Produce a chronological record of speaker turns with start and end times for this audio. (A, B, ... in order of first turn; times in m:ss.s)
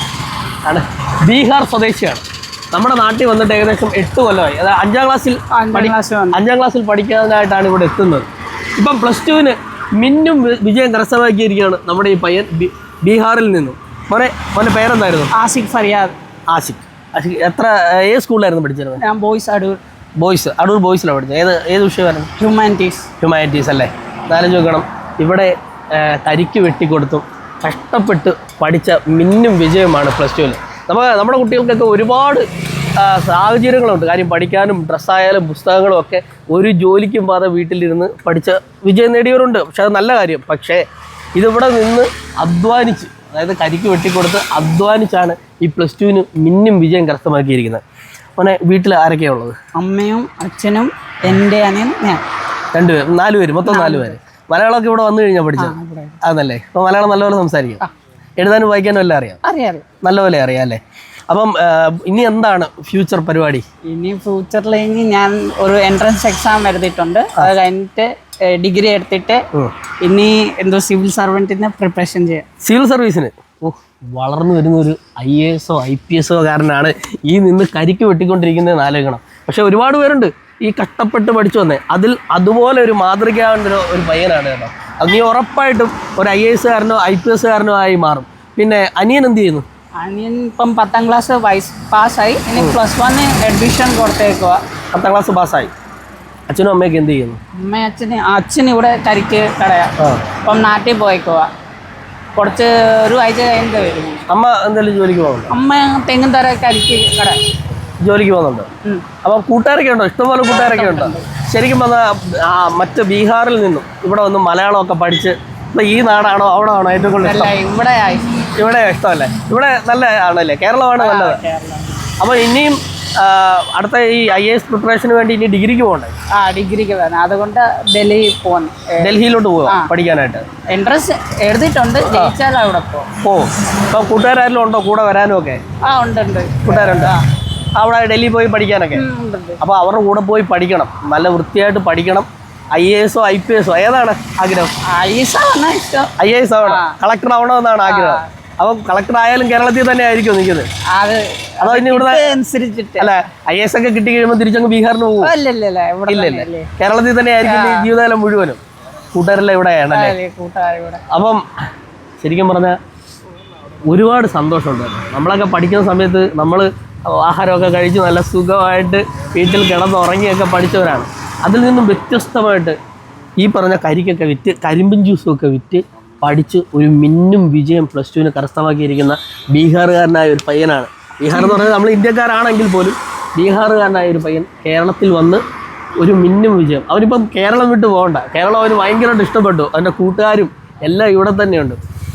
0:00.6-0:15.3 A
0:05.5-0:06.4 B
0:15.3-0:16.1 B
0:16.5-0:19.0 A
0:19.0-0:19.8 B
0:20.2-0:22.3 A
0:22.4-0:23.1 B
0:23.2-0:40.8 A
0:41.3-0:47.8 A
0:48.4-0:49.6 A
0:49.7-0:52.2 B
0:52.7-0:57.8 A
0:53.6-0:54.2 B
0:55.6-0:56.2 B
0:58.4-0:59.4 A
0:59.4-0:59.8 B
1:00.0-1:03.6 A
1:03.8-1:09.4 B
1:10.0-1:12.4 B
1:12.6-1:29.6 A
1:30.0-1:34.6 B
1:34.9-1:35.7 A
1:36.5-1:37.4 A
1:37.6-1:41.5 B
1:40.0-1:40.2 A
1:42.4-1:44.2 B
1:44.3-1:45.5 A
1:45.5-1:47.4 B
1:48.0-1:48.7 A
1:49.2-1:57.5 A
1:50.5-1:51.3 B
1:57.2-1:58.5 B
1:58.6-2:01.4 A
2:01.0-2:02.0 B
2:02.2-2:06.1 A
2:06.3-2:09.9 B
2:09.0-2:10.4 A
2:10.7-2:13.1 B
2:13.2-2:15.6 A
2:15.8-2:17.3 B
2:16.6-2:17.1 A
2:17.8-2:19.0 A
2:18.9-2:19.6 B
2:19.6-2:24.7 A
2:24.8-2:26.1 B
2:26.2-2:30.7 A
2:26.6-2:27.0 B
2:27.8-2:28.3 B
2:30.9-2:33.2 B
2:31.6-2:32.4 A
2:33.0-2:35.3 A
2:35.2-2:36.7 B
2:36.1-2:38.6 A
2:37.4-2:37.9 B
2:39.1-2:40.1 A
2:39.9-2:41.0 B
2:41.1-2:41.4 A
2:42.2-2:42.8 A
2:43.8-2:52.8 A
2:53.4-3:05.4 A
3:01.3-3:01.7 B
3:06.0-3:11.8 A